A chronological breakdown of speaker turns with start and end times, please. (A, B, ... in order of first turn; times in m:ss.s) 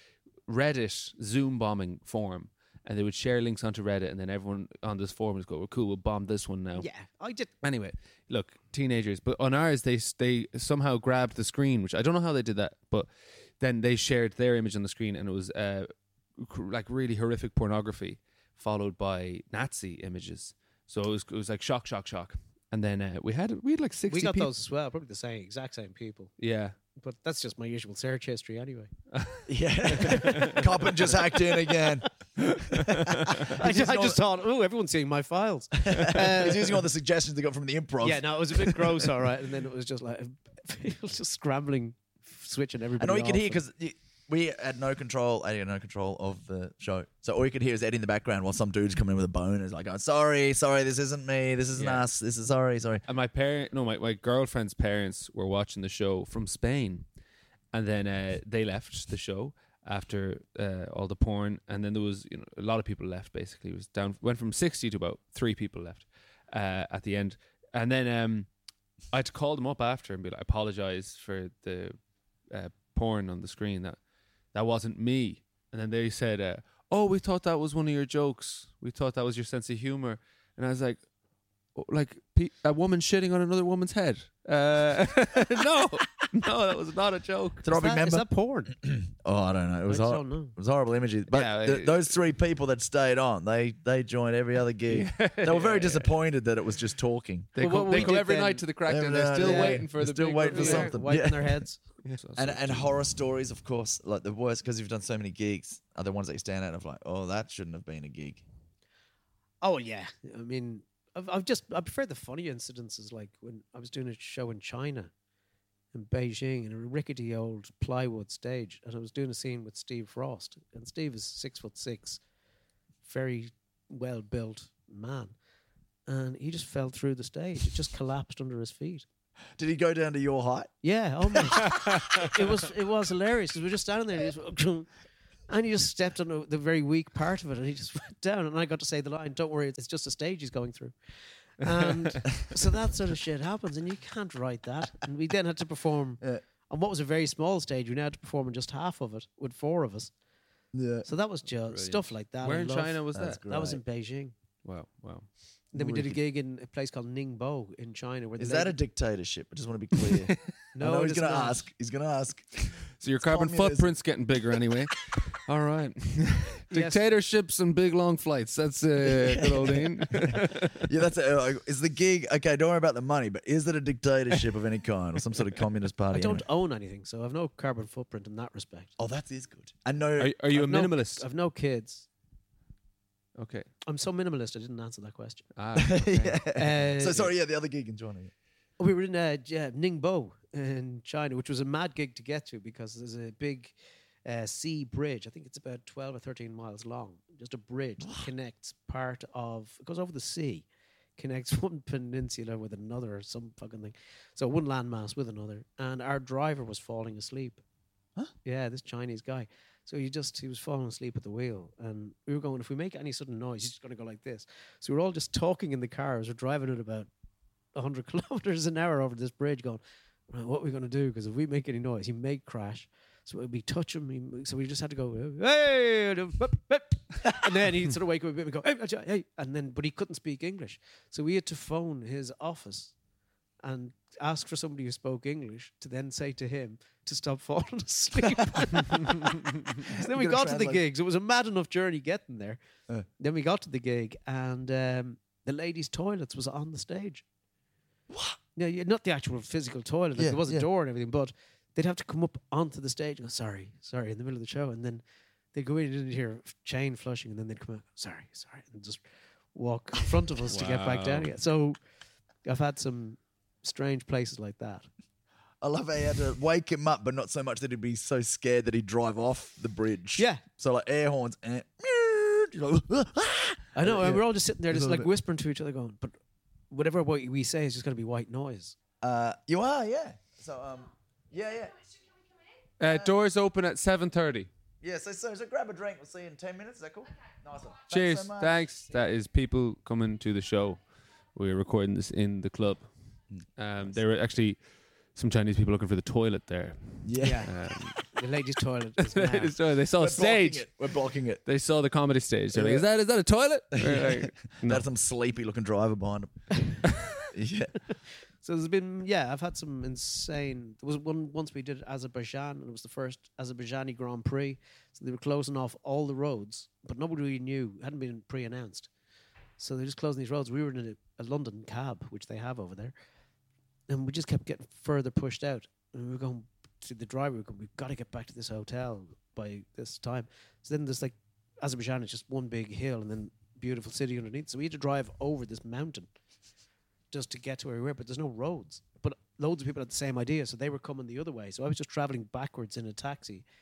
0:00.5-0:06.9 A
0:06.8-0:07.5 B
0:07.6-0:13.1 A
0:13.6-0:24.5 A
0:24.1-0:26.3 B
0:26.4-0:26.8 A
0:27.0-0:28.9 B
0:29.1-0:30.6 A
0:29.5-0:32.1 C
0:29.9-0:31.4 B
0:32.4-0:33.5 A
0:32.7-0:34.2 C
0:33.4-0:36.8 B
0:35.9-0:39.0 C
0:38.0-0:43.6 B
0:43.0-0:53.0 C
0:51.7-0:52.0 A
0:53.1-0:57.0 A
0:57.7-1:08.5 A
1:09.1-1:12.0 A
1:12.5-1:14.0 A
1:14.5-1:21.0 A
1:21.8-1:27.7 A
1:27.6-1:28.2 C
1:27.7-1:28.8 B
1:28.8-1:38.2 C
1:29.9-1:30.6 B
1:31.3-1:32.1 A
1:34.9-1:36.1 A
1:37.6-1:41.0 A
1:37.6-1:38.7 B
1:38.9-1:41.7 C
1:39.4-1:39.9 B
1:40.4-1:41.8 B
1:42.0-1:42.9 A
1:42.4-1:48.4 C
1:49.6-1:55.1 B
1:55.9-2:02.2 B
2:03.0-2:05.4 B
2:06.1-2:09.1 B
2:09.6-2:12.3 C
2:10.8-2:14.9 B
2:15.5-2:30.1 B
2:30.7-2:31.1 C
2:31.0-2:34.3 B
2:31.7-2:33.4 A
2:33.1-2:33.8 C
2:34.6-2:36.2 A
2:35.7-2:38.8 B
2:38.4-2:44.0 C
2:40.1-2:40.4 A
2:40.7-2:41.7 B
2:43.0-2:50.9 A
2:46.7-2:47.0 B
2:49.0-2:56.4 C
2:56.1-2:58.9 B
2:59.0-3:00.4 C
3:00.2-3:01.2 A
3:00.5-3:02.1 B
3:03.4-3:03.7 A
3:03.9-3:05.5 B
3:05.6-3:06.6 A
3:05.8-3:08.3 C
3:06.5-3:07.3 B
3:08.8-3:27.6 B
3:18.0-3:18.3 C
3:28.4-3:37.1 B
3:37.8-3:52.9 B
3:53.6-4:02.6 B
3:59.3-4:00.8 C
4:03.2-4:07.2 B
4:08.1-4:08.4 C
4:08.6-4:19.0 B
4:10.2-4:10.7 C
4:19.5-4:21.8 B
4:20.5-4:21.3 A
4:22.4-4:24.9 B
4:25.6-4:35.1 C
4:30.2-4:30.4 B
4:33.8-4:36.1 B
4:36.7-4:38.8 B
4:39.0-4:41.8 C
4:42.8-4:44.5 A
4:42.8-4:43.1 C
4:44.8-4:48.6 C
4:47.9-4:50.8 A
4:51.3-4:52.9 A
4:53.3-4:54.0 C
4:53.6-4:54.6 A
4:55.2-4:58.1 A
4:57.0-4:57.5 C
4:57.2-4:59.5 B
4:59.0-5:00.7 A
5:00.0-5:01.4 C
5:01.4-5:04.9 A
5:02.5-5:02.9 C
5:03.7-5:06.5 C
5:07.2-5:07.8 C
5:08.1-5:18.9 B
5:19.6-5:22.9 B
5:23.9-5:36.1 B
5:37.1-5:43.4 B